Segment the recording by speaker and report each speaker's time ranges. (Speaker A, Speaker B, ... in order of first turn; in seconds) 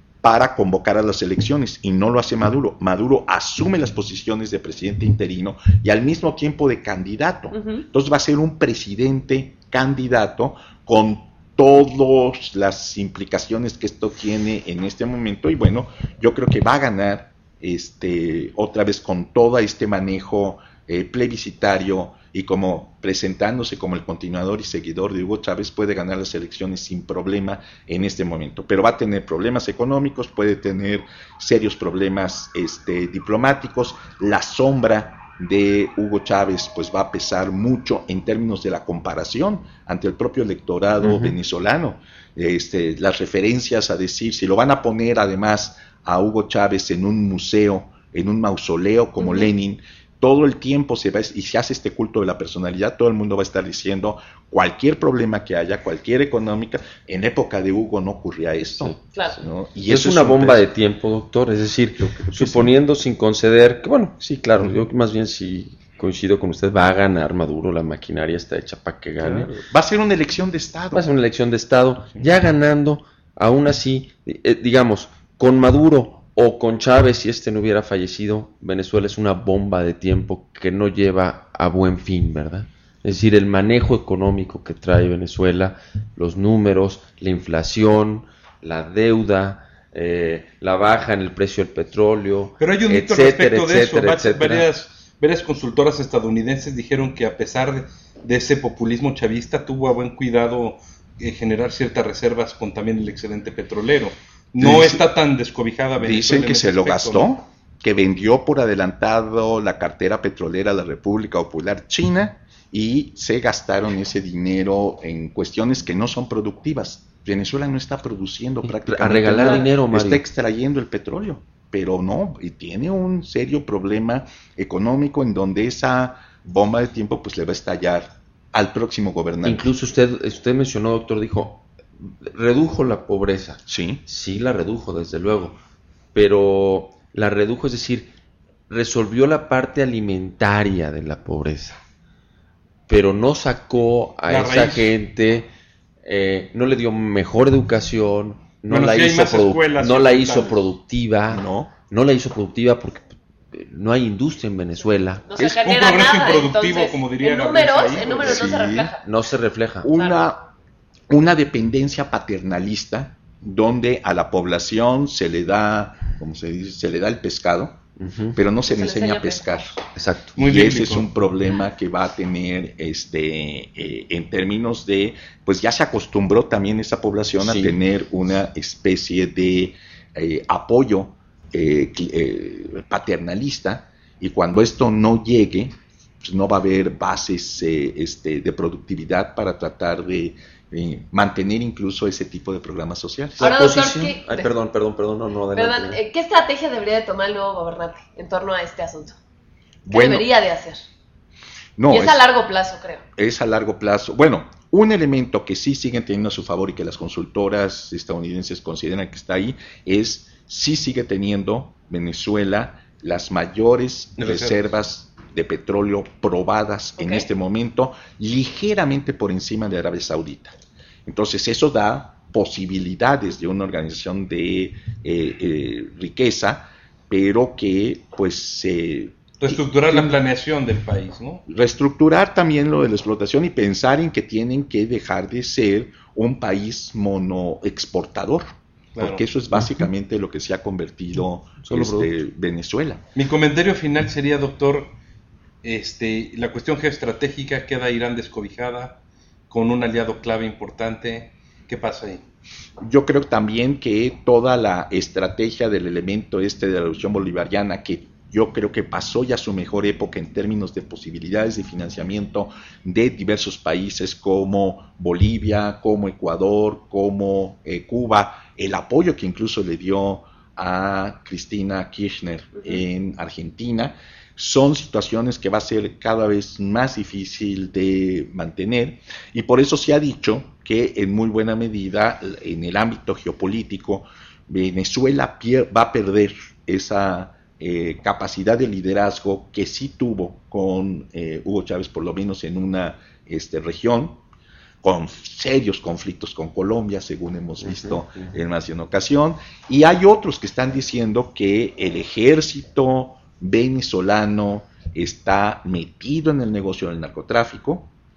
Speaker A: 0.2-60.7, 62.0-62.8, 69.2-71.1, 72.2-72.4, 104.6-105.0, 106.0-129.7, 133.7-134.0, 151.3-151.7, 158.2-158.9, 159.8-160.5, 161.1-167.8, 168.3-193.5, 199.9-200.3, 201.8-202.2, 203.2-220.6, 221.1-230.2, 231.5-238.5, 239.0-243.0, 252.8-294.2, 294.8-307.9
Speaker B: 7.5-7.8, 49.2-49.5, 155.3-159.0, 168.7-169.7, 193.4-194.5, 195.5-199.2, 199.9-200.8, 201.9-203.0, 217.0-217.3
Speaker C: 41.0-41.4, 58.7-59.0, 59.9-69.5, 70.9-94.7, 118.7-120.2, 129.4-135.6, 136.1-138.1, 138.7-141.8, 142.9-145.5, 146.0-155.6, 159.0-159.9, 168.0-168.4, 170.0-170.4, 177.4-177.8, 193.4-196.0, 241.6-242.1, 297.6-298.4
Speaker D: 92.6-107.3, 144.3-144.9, 148.7-150.6, 155.6-158.5, 170.3-171.1, 214.2-214.6, 229.4-231.4, 238.9-239.2, 243.2-244.9, 245.6-249.0, 249.5-252.2